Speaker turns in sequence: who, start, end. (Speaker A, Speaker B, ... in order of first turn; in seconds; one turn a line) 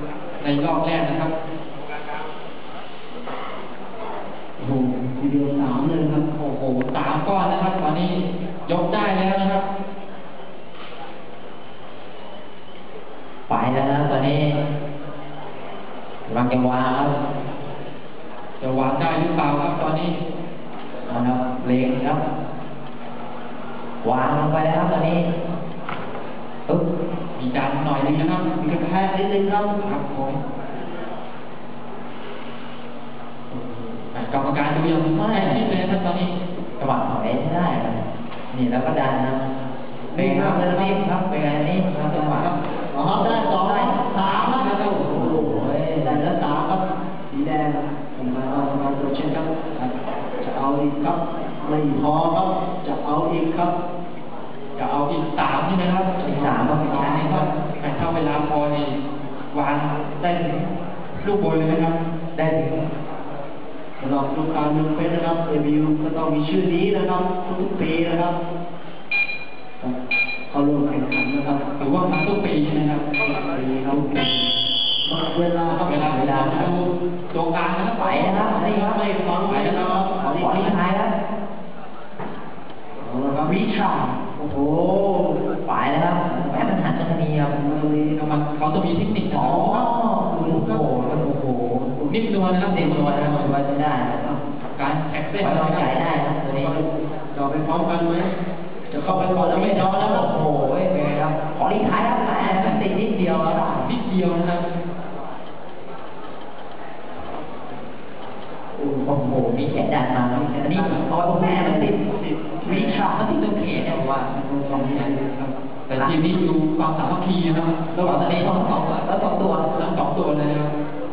Speaker A: 0.4-1.3
Speaker B: 4.6-6.2
Speaker A: 6.3-9.6
Speaker C: 13.5-14.6
Speaker C: 16.3-17.1
Speaker A: 18.6-20.2
Speaker C: 21.1-22.2
Speaker C: 24.0-25.3
Speaker A: 27.4-28.4
Speaker B: 28.0-29.7
Speaker A: 29.8-30.4
Speaker A: 33.5-36.3
Speaker C: 35.1-35.7
Speaker C: 36.8-38.0
Speaker C: 38.5-39.4
Speaker B: 40.1-41.0
Speaker C: 40.1-42.5
Speaker B: 42.1-53.7
Speaker C: 43.1-44.0
Speaker A: 44.3-45.2
Speaker C: 44.8-46.2
Speaker A: 54.8-56.2
Speaker B: 56.2-57.4
Speaker C: 56.2-57.5
Speaker A: 57.0-58.9
Speaker A: 59.5-60.7
Speaker A: 61.2-62.0
Speaker C: 62.4-62.8
Speaker B: 64.0-68.3
Speaker B: 70.5-72.1
Speaker A: 71.8-73.1
Speaker B: 73.2-74.5
Speaker B: 75.0-76.8
Speaker A: 75.7-78.5
Speaker C: 78.0-79.0
Speaker B: 78.1-80.8
Speaker A: 79.5-80.2
Speaker C: 80.4-81.1
Speaker B: 83.0-83.6
Speaker C: 83.4-84.1
Speaker B: 84.4-85.4
Speaker C: 85.7-87.5
Speaker B: 86.2-86.8
Speaker B: 87.4-88.2
Speaker A: 88.2-89.9
Speaker C: 89.3-91.9
Speaker B: 90.3-90.9
Speaker B: 92.0-92.2
Speaker A: 92.1-93.5
Speaker C: 92.7-94.2
Speaker A: 94.8-95.9
Speaker C: 95.4-96.8
Speaker B: 96.4-98.3
Speaker B: 98.9-100.3
Speaker C: 99.1-103.9
Speaker A: 102.2-102.9
Speaker A: 103.8-104.7
Speaker B: 108.8-109.3
Speaker C: 109.0-112.0
Speaker B: 110.3-113.3
Speaker C: 112.6-115.1
Speaker A: 113.5-115.0
Speaker B: 114.3-115.5
Speaker A: 115.9-118.9
Speaker C: 118.0-119.7
Speaker A: 119.7-120.7